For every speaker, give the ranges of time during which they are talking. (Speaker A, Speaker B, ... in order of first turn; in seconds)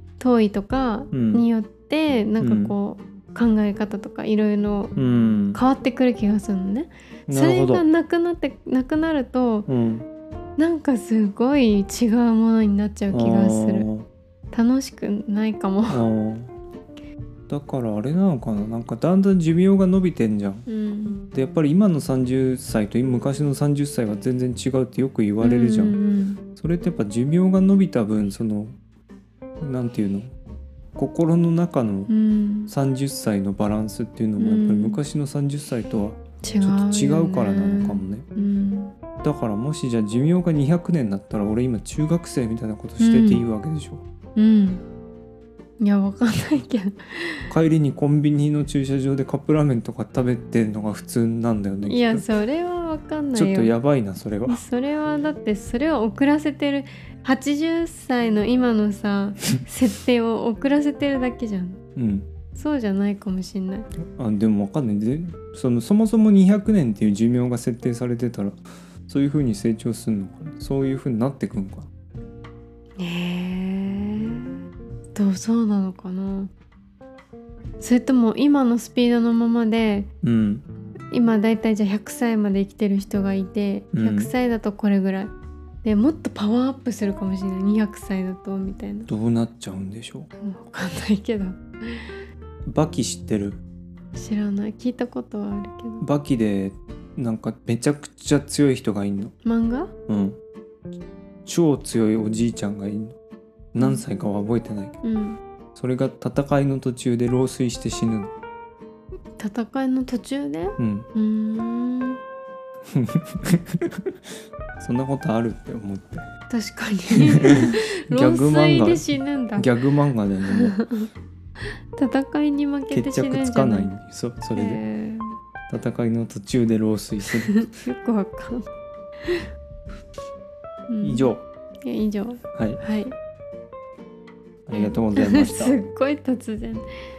Speaker A: 0.2-4.9, 5.5-9.7, 10.6-13.9, 14.5-16.0, 20.7-21.2, 25.4-26.4, 32.1-32.7, 34.4-35.0, 36.4-38.9, 43.0-43.4, 44.4-44.8, 45.8-47.5, 51.9-53.7, 54.5-61.8, 62.5-63.9, 73.0-74.6, 75.1-76.5, 77.8-80.1, 81.1-85.3, 85.8-89.1, 90.4-92.2, 94.1-96.0, 99.4-99.9, 103.8-104.0, 105.0-105.4, 109.4-112.2, 116.5-119.7, 120.5-121.1, 121.9-123.9, 124.5-125.4, 127.5-128.7, 130.9-131.3, 131.8-133.1, 134.7-136.8
Speaker B: 1.1-1.4, 2.4-2.7, 5.0-5.6, 7.3-7.8, 9.7-10.1, 13.1-14.1, 15.9-16.5, 17.5-20.6, 21.3-26.0, 26.6-28.8, 29.6-30.3, 30.9-32.1, 32.7-38.2, 39.2-44.0, 47.5-52.2, 53.3-54.6, 61.9-62.3, 64.0-68.5, 69.1-71.9, 80.2-80.6, 83.9-84.3, 89.1-90.3, 92.7-93.6, 96.0-99.3, 100.1-100.4, 101.5-103.2, 103.7-105.0, 105.7-108.3, 110.8-111.1, 112.9-114.2, 114.8-116.3, 117.2-120.8, 122.9-124.8, 125.7-127.7, 131.0-131.4, 132.5-132.8, 134.7-135.8